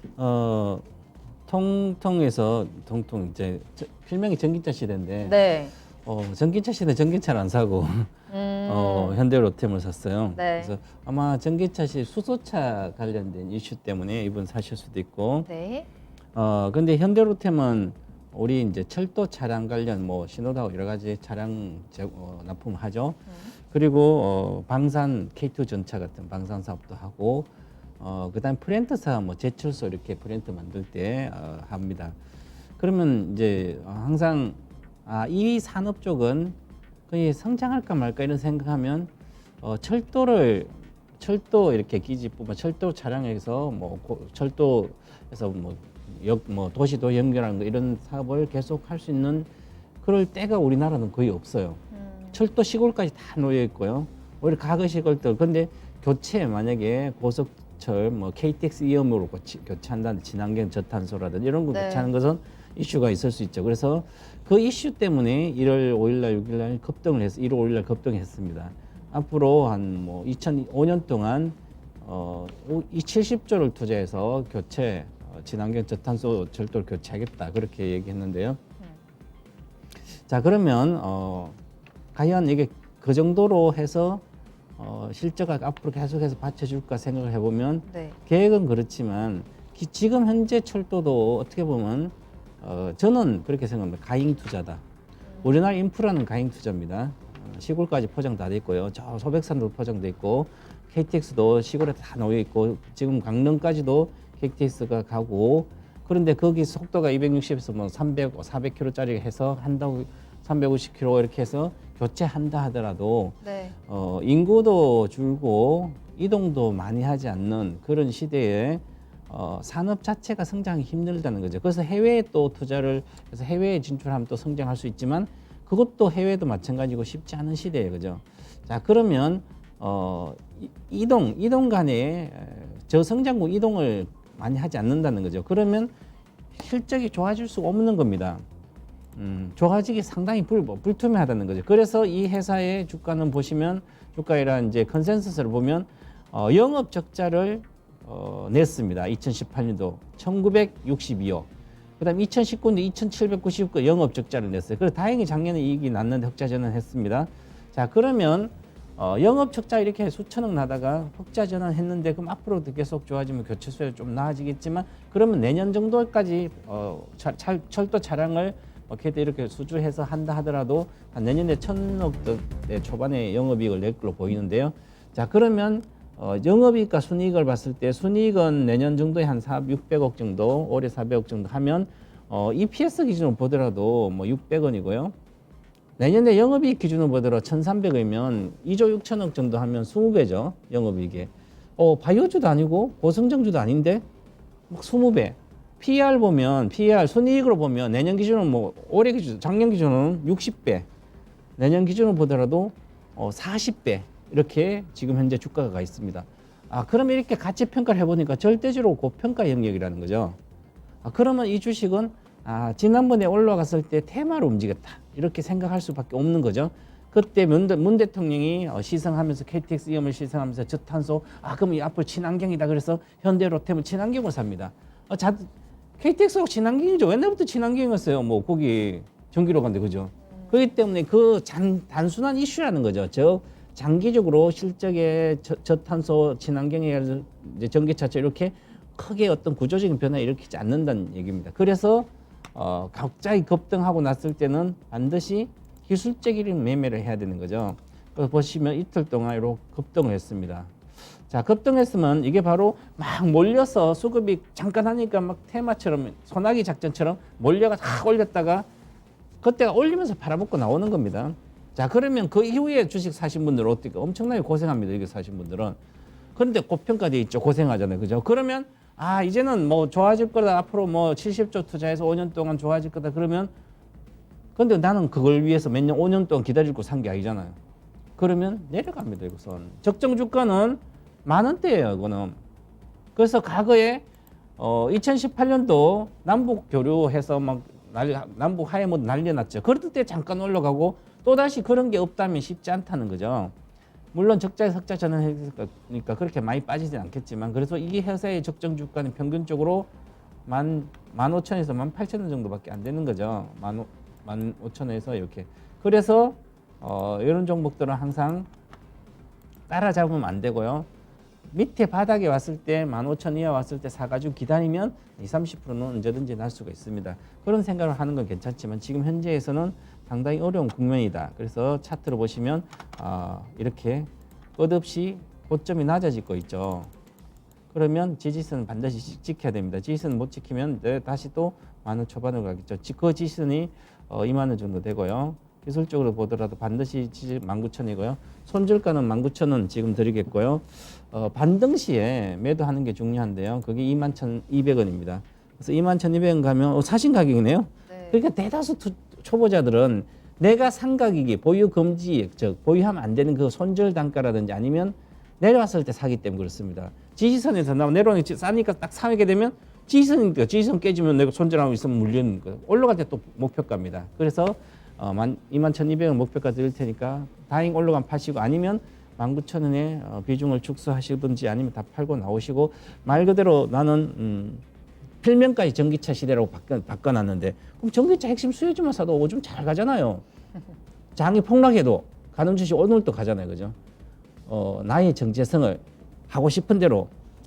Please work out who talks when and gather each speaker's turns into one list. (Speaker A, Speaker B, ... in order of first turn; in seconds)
Speaker A: 0.2-0.8, 1.5-5.4, 6.0-8.1, 8.7-15.5, 16.4-27.5, 28.0-32.1, 32.8-36.6, 37.1-39.1, 39.6-49.5, 50.0-51.8, 52.3-78.6, 80.3-81.6, 82.1-84.2, 84.8-94.8, 95.4-135.9, 136.5-138.4, 139.2-185.1, 186.0-194.0, 194.7-200.9, 201.6-210.4, 211.0-250.7, 251.3-258.7, 259.4-265.8, 266.4-273.5, 274.6-277.6, 278.2-282.4, 283.1-284.1, 284.6-293.5, 294.1-299.9, 300.5-308.5, 309.7-310.9, 311.5-326.9, 327.7-374.6, 375.2-380.2, 381.2-383.8, 384.5-387.1
Speaker B: 5.2-5.7, 8.3-9.2, 10.4-10.7, 15.5-15.9, 51.9-52.4, 61.7-62.1, 87.9-88.2, 113.4-113.7, 347.9-348.2